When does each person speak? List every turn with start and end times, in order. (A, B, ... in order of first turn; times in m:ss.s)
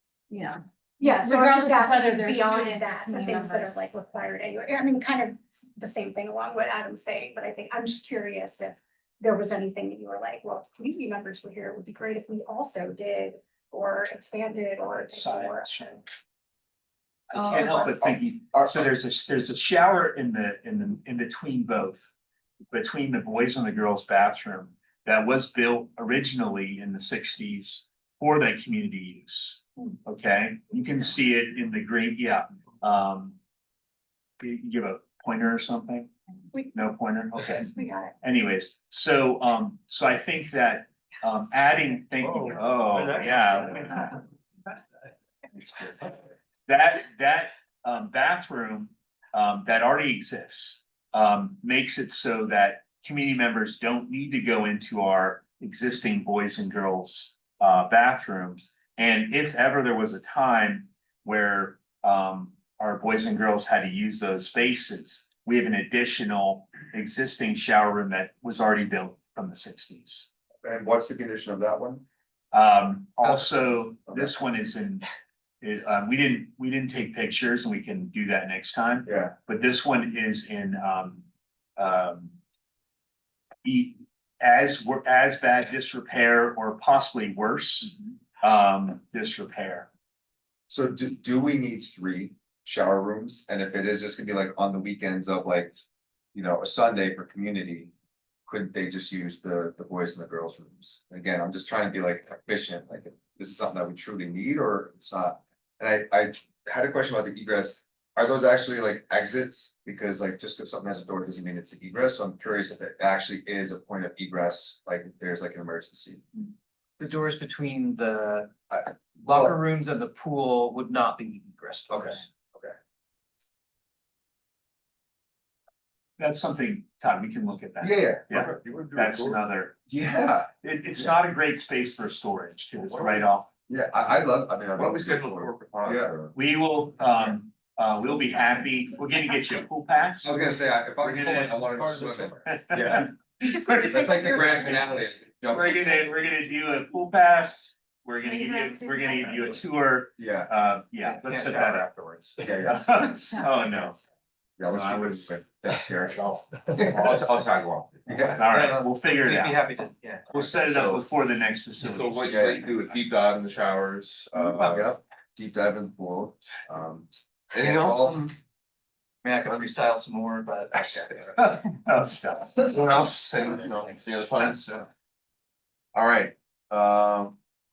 0:00.3-0:03.8 A
0:01.0-0:16.0 B
0:15.1-0:15.9 C
0:17.3-0:22.1 C
0:17.7-0:18.7 D
0:22.7-0:33.4 C
0:34.4-0:36.1 C
0:36.7-0:44.1 C
0:37.7-0:38.1 B
0:46.7-1:10.3 C
1:10.6-1:12.0 D
1:12.5-1:15.1 C
1:13.2-1:14.3 D
1:15.6-1:21.2 C
1:19.1-1:19.3 D
1:21.8-1:22.4 C
1:23.6-1:29.9 C
1:30.7-1:35.8 D
1:36.3-1:37.9 D
1:38.5-1:56.2 D
1:57.0-1:58.7 E
1:58.7-1:59.6 D
1:59.2-2:02.2 E
2:01.9-2:02.8 D
2:06.2-2:09.8 C
2:07.8-2:09.4 D
2:09.9-2:11.1 D
2:10.6-2:13.5 C
2:12.9-2:16.3 D
2:14.7-2:16.2 F
2:16.3-2:20.4 C
2:20.2-2:23.1 D
2:21.3-2:21.7 C
2:21.8-2:22.4 E
2:22.4-2:24.0 C
2:23.4-2:25.0 B
2:23.8-2:25.9 D
2:25.4-2:31.9 C
2:30.2-2:30.5 D
2:31.0-2:32.4 E
2:32.4-2:34.0 C
2:32.4-2:33.3 D
2:34.6-2:38.6 D
2:34.7-2:35.3 F
2:36.1-2:38.0 F
2:38.3-2:39.6 C
2:38.5-2:40.8 E
2:40.3-2:42.4 C
2:41.8-2:45.0 F
2:42.2-2:42.7 D
2:44.5-2:48.3 D
2:47.6-2:47.8 E
2:47.6-2:48.1 F
2:49.2-2:51.3 E
2:51.4-2:52.7 C
2:52.6-2:54.8 F
2:54.1-2:54.5 E
2:55.9-2:57.3 F